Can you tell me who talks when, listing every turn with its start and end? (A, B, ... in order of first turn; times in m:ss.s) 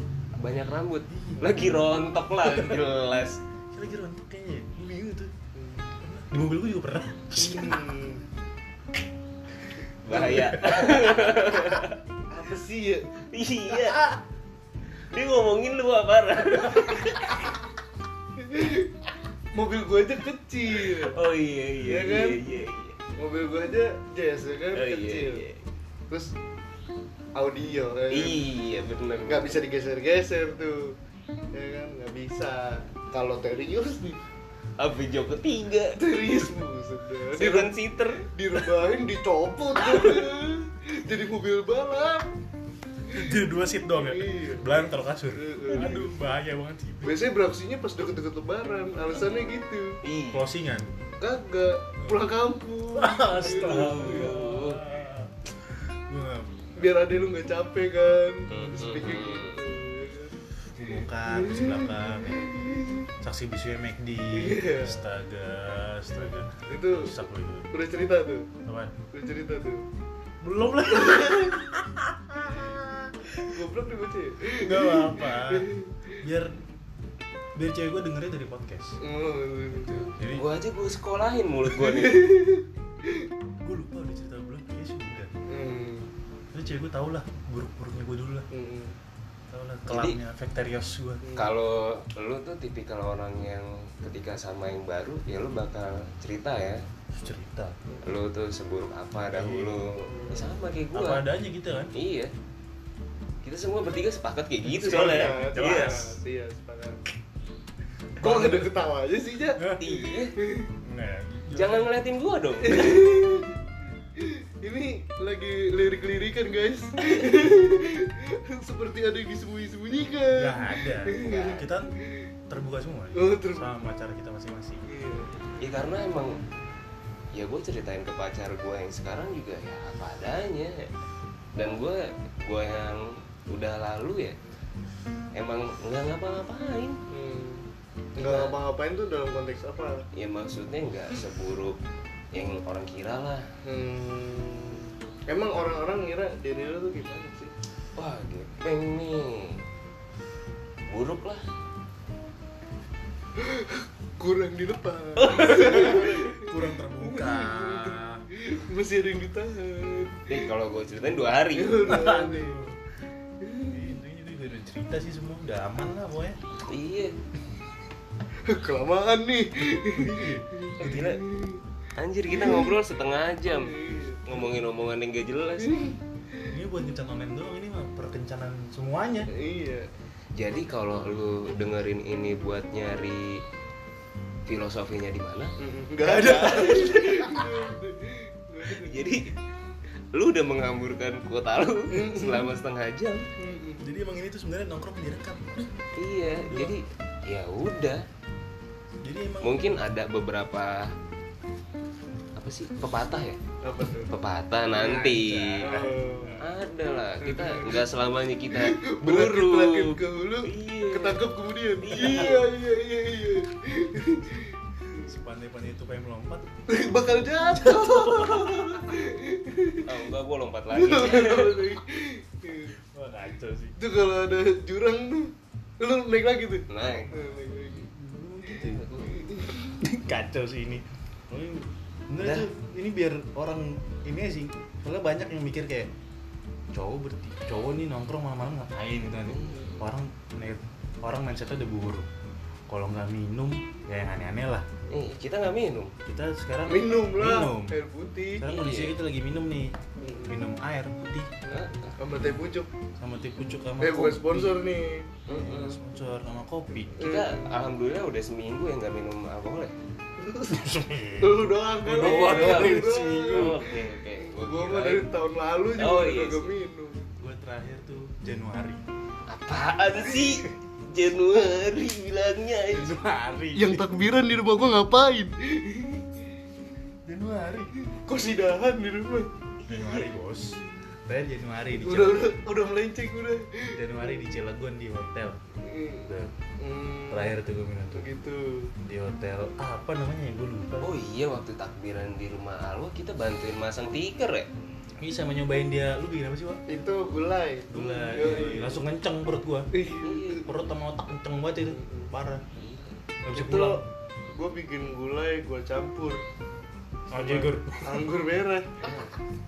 0:00.4-0:03.4 A
0:01.1-0:01.5 B
0:02.4-0:02.8 B
0:03.7-0:05.3 B
0:05.5-0:05.9 C
0:06.0-0:07.8 B
0:07.4-0:08.2 C
0:10.0-0:12.0 A
0:10.1-0:11.8 B
0:10.2-0:10.6 C
0:12.3-0:13.1 C
0:13.3-0:14.0 A
0:15.1-0:17.5 A
0:18.4-0:18.9 C
0:19.5-0:21.2 C
0:20.8-0:23.0 A
0:21.8-0:22.4 C
0:23.2-0:25.4 C
0:24.7-0:25.6 A
0:27.3-0:28.4 C
0:28.1-0:29.6 A
0:29.3-0:31.0 C
0:31.5-0:34.2 C
0:34.8-0:36.3 A
0:36.0-0:42.3 C
0:37.3-0:38.7 A
0:43.1-0:47.2 B
0:43.9-0:46.1 C
0:47.0-0:50.0 C
0:50.0-0:50.4 A
0:50.3-0:50.9 B
0:51.2-0:54.3 C
0:52.9-0:56.8 B
0:53.4-0:54.8 A
0:56.8-1:00.4 C
0:58.5-0:59.6 A
1:00.8-1:07.7 B
1:01.3-1:03.1 C
1:04.3-1:05.0 C
1:06.6-1:07.1 C
1:07.7-1:08.5 C
1:08.6-1:08.9 B
1:09.1-1:09.8 C
1:10.4-1:13.6 B
1:10.9-1:11.8 C
1:13.4-1:16.2 C
1:14.6-1:15.7 B
1:16.2-1:16.5 B
1:17.5-1:19.0 B
1:19.0-1:20.0 C
1:19.9-1:20.5 B
1:20.3-1:22.4 A
1:21.8-1:23.3 C
1:23.6-1:25.4 B
1:25.5-1:26.1 C
1:26.5-1:28.5 B
1:28.5-1:28.9 C
1:29.5-1:31.2 B
1:29.9-1:30.2 A
1:31.2-1:31.5 C
1:31.3-1:36.8 A
1:37.1-1:37.8 B
1:38.0-1:41.2 A
1:39.2-1:39.9 B
1:40.1-1:40.5 C
1:40.9-1:41.9 B
1:41.9-1:42.3 A
1:43.4-1:46.0 A
1:44.6-1:46.1 B
1:44.9-1:47.0 C
1:48.2-1:48.7 B
1:48.2-1:49.7 C
1:49.6-1:50.0 B
1:49.8-1:50.3 A
1:50.3-1:50.7 C
1:50.8-1:51.9 B
1:51.5-1:53.2 A
1:52.6-1:53.6 C
1:54.1-2:02.3 C
2:00.4-2:01.9 B
2:01.2-2:01.6 A
2:02.5-2:04.8 B
2:03.1-2:03.7 C
2:04.9-2:05.3 C
2:05.6-2:06.3 A
2:07.3-2:10.9 A
2:11.5-2:14.4 A
2:15.3-2:17.0 A
2:17.1-2:17.6 C
2:18.2-2:20.0 C
2:18.2-2:18.6 A
2:20.1-2:21.8 A
2:22.3-2:23.4 A
2:23.6-2:27.5 C
2:28.0-2:29.6 A
2:30.9-2:31.4 A
2:33.4-2:40.5 C
2:35.2-2:36.1 A
2:35.4-2:38.2 B
2:40.3-2:41.9 A
2:41.5-2:42.6 C
2:41.8-2:42.8 B
2:43.4-2:43.8 C
2:43.7-2:46.4 B
2:46.7-2:47.2 A
2:48.4-2:51.6 C
2:49.9-2:51.1 B
2:50.8-2:51.2 A
2:51.9-2:55.8 A
2:52.3-2:52.8 C
2:53.4-2:54.4 C
2:55.6-2:56.5 C
2:56.5-2:59.3 B
2:59.3-2:59.9 C
3:00.4-3:03.4 A
3:04.5-3:05.5 A
3:05.6-3:09.1 C
3:06.0-3:07.4 B
3:06.2-3:07.4 A
3:08.6-3:09.3 A
3:10.1-3:13.3 A
3:11.9-3:12.5 C
3:13.4-3:13.8 C
3:13.8-3:15.7 B
3:16.0-3:18.0 A
3:16.4-3:16.7 B
3:19.0-3:19.7 B
3:19.4-3:20.9 A
3:22.4-3:23.4 A
3:23.6-3:24.1 C
3:24.1-3:25.6 A
3:24.8-3:26.4 B
3:25.6-3:26.4 C
3:26.4-3:31.2 A
3:27.2-3:27.8 C
3:28.5-3:35.1 C
3:31.8-3:32.4 A
3:35.0-3:36.5 B
3:36.7-3:40.0 C
3:37.5-3:39.0 B
3:39.8-3:41.6 A
3:40.7-3:42.8 C
3:42.8-3:43.8 B
3:43.8-3:47.9 C
3:46.7-3:47.3 A
3:47.7-3:48.8 B
3:48.5-3:49.3 A
3:49.1-3:49.8 C
3:49.8-3:55.9 B
3:52.2-3:52.5 A
3:56.7-4:02.1 B
3:59.3-3:59.7 A
3:59.4-3:59.7 C
4:02.7-4:04.7 B
4:04.9-4:05.9 A
4:06.0-4:07.7 B
4:06.7-4:08.4 C
4:08.4-4:09.7 B
4:08.4-4:09.0 A
4:10.0-4:10.4 C
4:10.3-4:11.3 B
4:11.4-4:12.0 A
4:11.5-4:12.7 C
4:13.0-4:14.6 B
4:13.8-4:15.2 C
4:15.3-4:15.8 A
4:15.3-4:17.0 B
4:16.9-4:17.6 C
4:17.0-4:19.7 A
4:20.2-4:20.6 C
4:20.5-4:23.6 B
4:21.2-4:23.7 C
4:22.0-4:25.1 A
4:24.2-4:27.1 C
4:25.8-4:26.5 A
4:27.2-4:28.8 B
4:29.3-4:33.0 A
4:32.7-4:33.9 B
4:33.5-4:36.2 C
4:37.0-4:37.8 B
4:37.8-4:39.3 C
4:39.6-4:42.4 B
4:41.8-4:44.2 C
4:43.7-4:45.4 B
4:45.6-4:47.3 C
4:46.1-4:46.3 B
4:47.1-4:48.1 B
4:47.9-4:48.7 C
4:48.8-4:50.9 B
4:50.8-4:54.5 A
4:55.0-4:56.6 B
4:56.7-4:58.8 C
4:57.7-4:59.7 B
4:59.7-5:00.4 C
5:00.0-5:00.5 A
5:00.4-5:02.4 B
5:01.7-5:02.1 C
5:02.5-5:03.0 A
5:03.2-5:03.8 B
5:03.3-5:06.2 C
5:07.1-5:08.0 B
5:07.1-5:08.7 C
5:08.8-5:09.2 A